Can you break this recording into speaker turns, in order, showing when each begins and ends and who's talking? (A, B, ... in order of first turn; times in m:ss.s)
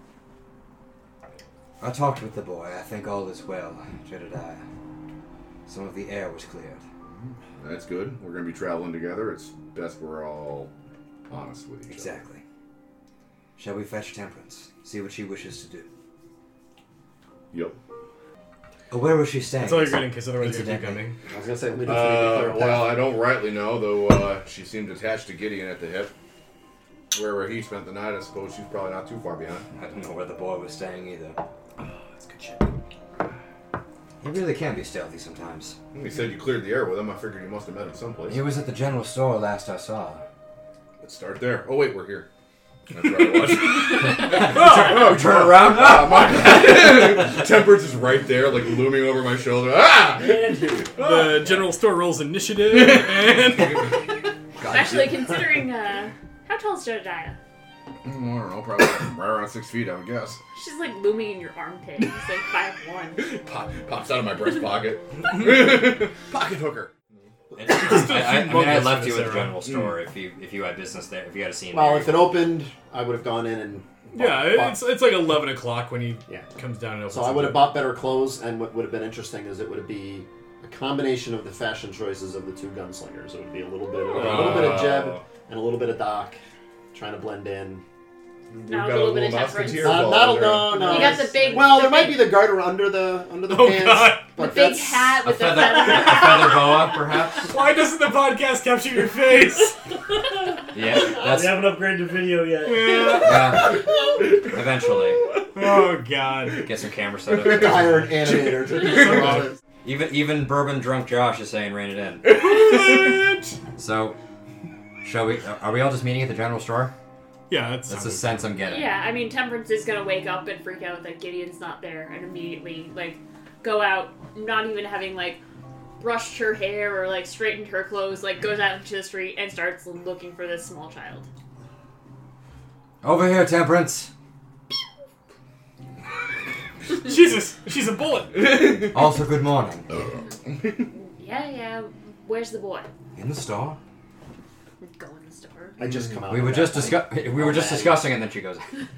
0:01.8-0:04.6 A
0:05.7-0:06.8 A
0:07.1-0:10.7 B
0:11.3-0:12.2 B
0:11.9-0:12.4 A
0:13.6-0:15.9 A
0:17.5-0:17.8 B
0:18.9-0:21.1 A
0:19.6-0:21.2 C
0:21.3-0:23.0 D
0:21.8-0:26.1 B
0:27.1-0:29.7 B
0:29.8-0:31.4 A
0:32.3-0:32.6 C
0:34.2-0:35.8 A
0:35.9-0:38.4 B
0:38.3-0:40.2 A
0:41.0-0:42.3 B
0:42.9-0:51.7 B
0:43.9-0:47.3 A
0:44.3-0:45.1 C
0:50.1-0:51.0 E
0:51.0-0:54.1 C
0:52.7-0:55.4 B
0:54.6-0:57.4 F
0:58.0-1:00.4 B
1:00.5-1:03.3 F
1:03.2-1:06.9 B
1:07.6-1:12.4 A
1:07.7-1:09.6 C
1:11.7-1:14.8 D
1:14.2-1:17.8 C
1:17.1-1:26.4 D
1:24.1-1:25.2 B
1:24.2-1:24.8 A
1:26.9-1:27.8 D
1:28.5-1:30.9 B
1:28.7-1:30.1 F
1:29.8-1:35.2 D
1:30.7-1:31.8 E
1:30.8-1:32.2 F
1:33.5-1:34.3 C
1:34.4-1:36.9 F
1:35.2-1:37.5 A
1:37.4-1:39.8 C
1:40.7-1:41.6 A
1:41.0-1:43.3 E
1:42.6-1:43.6 C
1:43.2-1:45.2 A
1:45.5-1:46.6 C
1:46.6-1:48.1 A
1:47.4-1:47.7 B
1:47.4-1:49.6 D
1:48.3-1:49.4 B
1:49.8-1:52.4 A
1:52.3-1:53.6 B
1:53.8-1:54.2 A
1:55.0-1:56.9 A
1:57.5-1:58.5 C
1:57.9-1:59.0 A
1:58.6-2:05.4 F
2:06.0-2:11.3 F
2:13.0-2:14.1 A
2:16.9-2:18.4 C
2:18.4-2:19.0 B
2:18.8-2:19.9 A
2:19.9-2:20.8 B
2:21.0-2:22.9 F
2:23.2-2:23.8 A
2:24.8-2:25.8 F
2:25.8-2:28.1 D
2:25.8-2:26.2 B
2:26.3-2:28.7 A